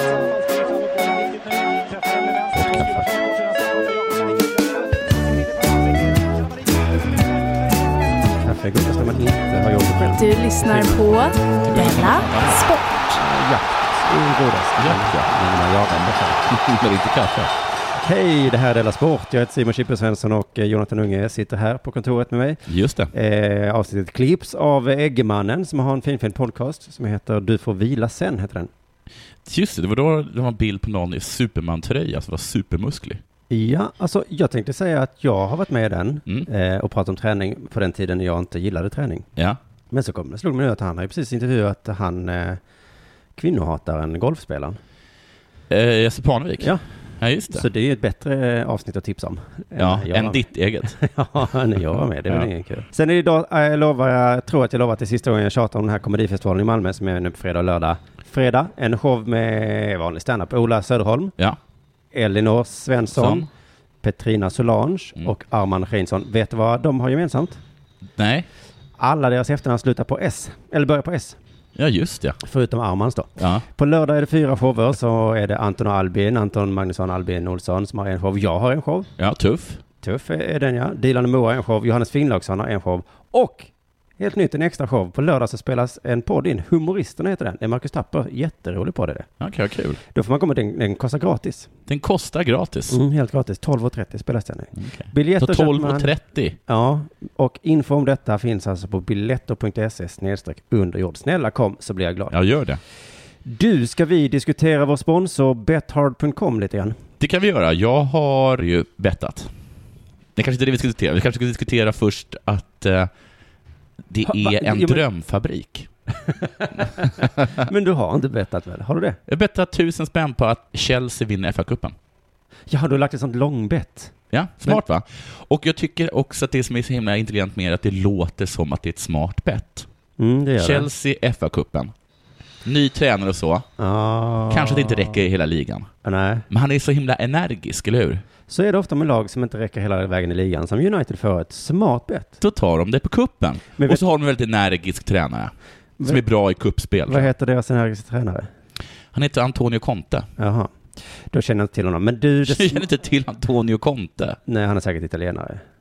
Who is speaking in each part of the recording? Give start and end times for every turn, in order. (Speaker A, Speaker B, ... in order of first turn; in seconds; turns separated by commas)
Speaker A: 2.5-3.1, Speaker B: 8.4-11.1, Speaker C: 10.1-13.2, Speaker A: 11.7-12.6, Speaker B: 13.1-16.5, Speaker A: 14.8-15.3, Speaker A: 16.5-17.5, Speaker B: 17.9-28.7, Speaker A: 22.7-23.1, Speaker A: 29.4-33.2, Speaker B: 33.5-39.3, Speaker B: 39.9-42.6, Speaker B: 43.4-44.8, Speaker A: 45.7-47.7, Speaker B: 47.5-61.4, Speaker A: 49.8-51.0, Speaker B: 62.1-63.5, Speaker A: 63.1-63.5, Speaker B: 64.0-67.6, Speaker A: 68.2-68.5, Speaker B: 69.0-71.4, Speaker A: 71.8-72.4, Speaker B: 72.4-79.1, Speaker A: 73.4-73.7, Speaker A: 79.2-79.8, Speaker B: 80.0-89.3, Speaker A: 89.4-90.0, Speaker B: 90.1-91.7, Speaker A: 91.9-93.0, Speaker B: 92.9-96.1, Speaker A: 94.8-96.6, Speaker B: 96.7-102.4, Speaker A: 102.3-102.8, Speaker B: 103.5-107.0, Speaker A: 107.2-109.5, Speaker A: 110.3-113.1, Speaker A: 114.1-115.9, Speaker B: 114.3-115.0, Speaker B: 116.4-116.9, Speaker A: 117.0-117.5, Speaker B: 117.6-119.2, Speaker A: 119.3-122.0, Speaker B: 122.7-124.1, Speaker A: 124.3-129.9, Speaker B: 130.2-130.9, Speaker A: 130.6-131.9, Speaker A: 132.6-133.7, Speaker B: 133.8-135.2, Speaker A: 134.5-135.9, Speaker B: 136.0-136.4, Speaker A: 136.5-138.2, Speaker B: 138.5-142.4, Speaker A: 142.4-145.5, Speaker B: 143.8-144.0, Speaker B: 146.0-146.2, Speaker A: 146.0-147.3, Speaker B: 147.1-148.5, Speaker A: 149.1-150.3, Speaker B: 150.4-150.7, Speaker B: 151.3-152.8, Speaker A: 152.4-154.4, Speaker B: 154.5-155.6